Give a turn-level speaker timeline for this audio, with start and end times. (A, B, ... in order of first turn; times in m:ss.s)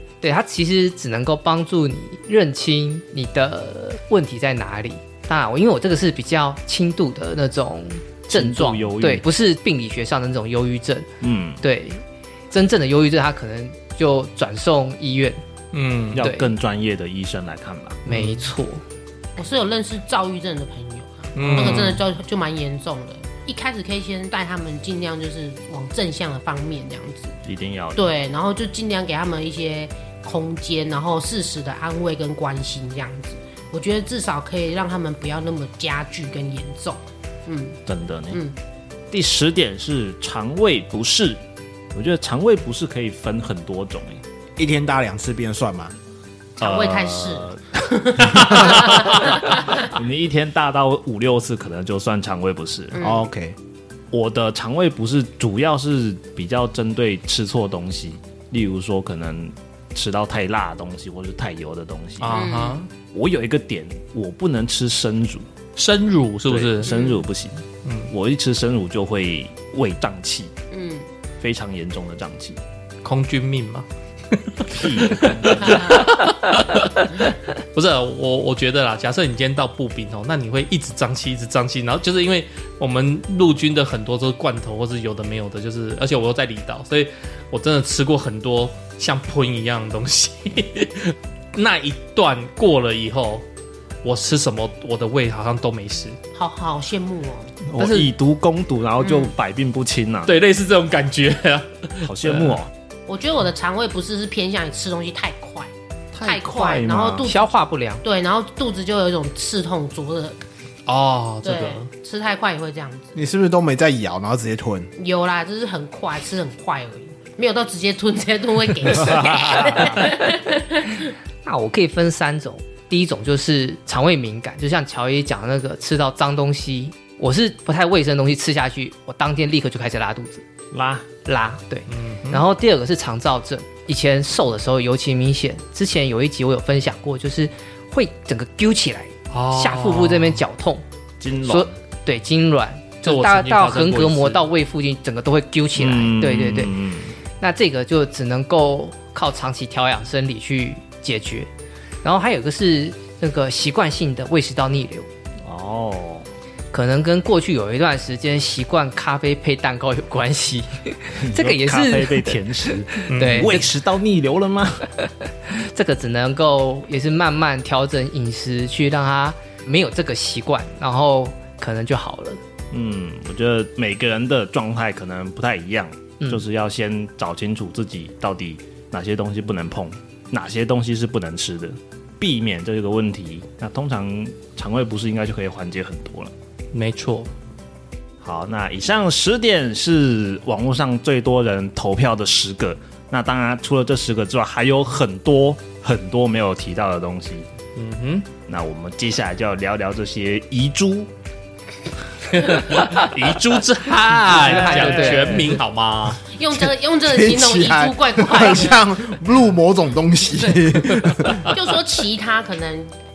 0:00.2-0:11.1 A
0:08.3-0:09.2 B
0:11.2-0:11.6 B
0:11.6-0:15.4 A
0:15.7-0:16.2 C
0:16.1-0:18.0 B
0:16.2-0:16.5 A
0:18.0-0:18.8 A
0:18.1-0:18.4 C
0:19.4-0:27.4 D
0:21.3-0:22.0 C
0:21.6-0:21.8 A
0:27.4-0:28.0 B
0:27.9-0:37.8 D
0:37.8-0:38.4 B
0:38.3-0:38.6 D
0:39.1-0:41.4 B
0:41.9-0:44.2 B
0:44.6-0:45.9 E
0:46.6-0:49.5 D
0:46.6-0:47.6 B
0:48.4-0:53.0 B
0:48.4-0:49.2 C
0:52.9-0:53.2 D
0:53.0-0:53.6 E
0:54.1-1:02.5 B
1:02.2-1:02.9 C
1:02.3-1:02.8 D
1:03.0-1:05.4 B
1:05.8-1:06.9 C
1:06.5-1:10.5 B
1:06.8-1:07.2 D
1:07.8-1:08.1 C
1:10.7-1:11.0 D
1:11.4-1:12.6 B
1:13.0-1:33.4 C
1:14.7-1:15.8 B
1:15.6-1:16.0 D
1:34.0-1:36.2 C
1:36.3-1:37.6 D
1:37.6-1:40.3 B
1:37.8-1:38.1 C
1:39.0-1:39.3 D
1:40.2-1:42.6 C
1:42.0-1:42.7 B
1:43.1-1:45.7 D
1:46.1-1:47.3 B
1:46.2-1:47.4 D
1:47.2-1:48.0 A
1:48.0-1:50.4 D
1:50.8-1:51.9 C
1:51.4-1:53.1 D
1:53.1-1:54.9 E
1:55.0-2:01.1 D
1:59.0-2:00.0 B
2:01.4-2:10.4 A
2:10.7-2:11.1 B
2:11.2-2:20.8 A
2:11.9-2:12.4 C
2:19.3-2:20.4 C
2:21.2-2:21.7 B
2:21.4-2:26.7 A
2:23.0-2:24.4 C
2:25.8-2:27.1 B
2:27.4-2:31.5 A
2:32.0-2:35.1 A
2:35.4-2:36.2 B
2:36.7-2:43.7 A
2:41.2-2:44.9 B
2:43.1-2:43.5 C
2:45.0-2:52.4 A
2:52.7-3:06.3 B
3:06.7-3:07.3 C
3:08.2-3:17.4 B
3:17.8-3:18.3 C
3:18.4-3:21.1 B
3:22.3-3:26.2 C
3:24.3-3:25.6 A
3:24.5-3:25.5 B
3:26.3-3:28.8 D
3:27.0-3:31.5 E
3:30.4-3:32.9 D